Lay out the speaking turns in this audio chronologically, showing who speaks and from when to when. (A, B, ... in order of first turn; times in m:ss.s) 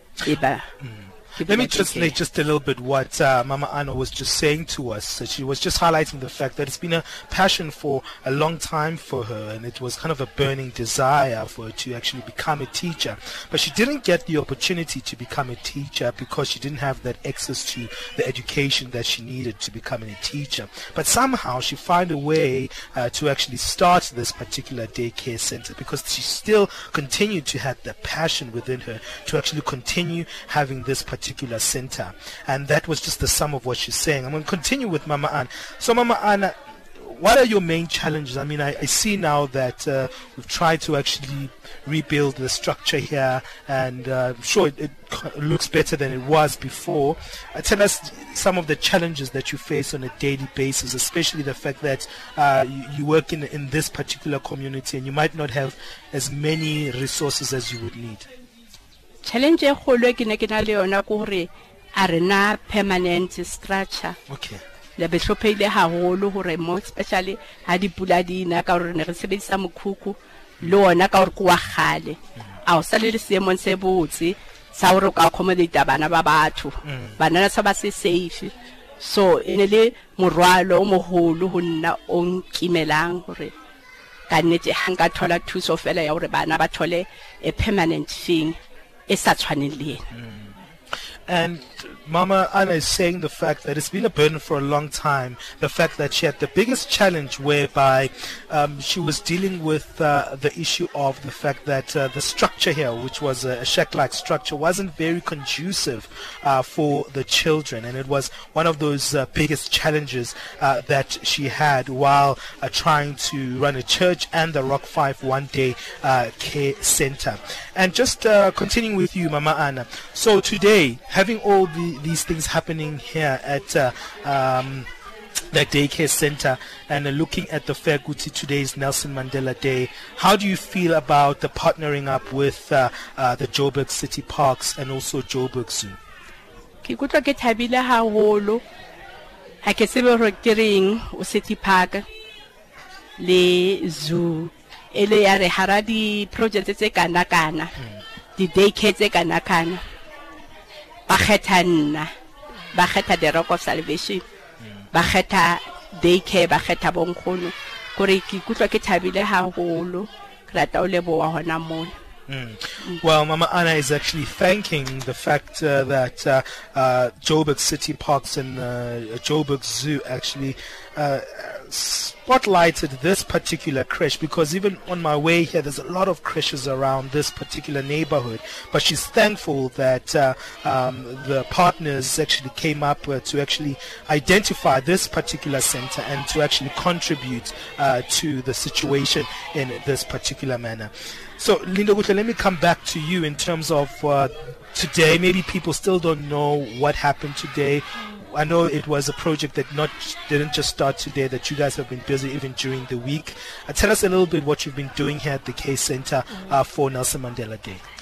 0:00.3-0:00.6 A
0:00.8-0:58.3 B
0:01.4-0:02.2 A
0:59.2-1:04.2 A
1:04.3-1:04.6 B
1:05.0-1:23.5 A
1:16.8-1:17.2 B
1:24.3-1:28.6 A
1:29.1-1:30.0 A
1:30.1-1:30.6 B
1:31.3-2:04.9 B
2:05.5-2:16.0 B
2:16.8-2:18.6 A
2:19.6-2:22.0 A
2:23.2-2:27.7 A
2:27.8-2:28.0 B
2:28.4-2:29.8 A
2:31.1-2:32.1 A
2:32.7-2:34.2 A
2:34.6-2:34.8 B
2:34.9-2:41.9 A
2:42.3-3:27.8 B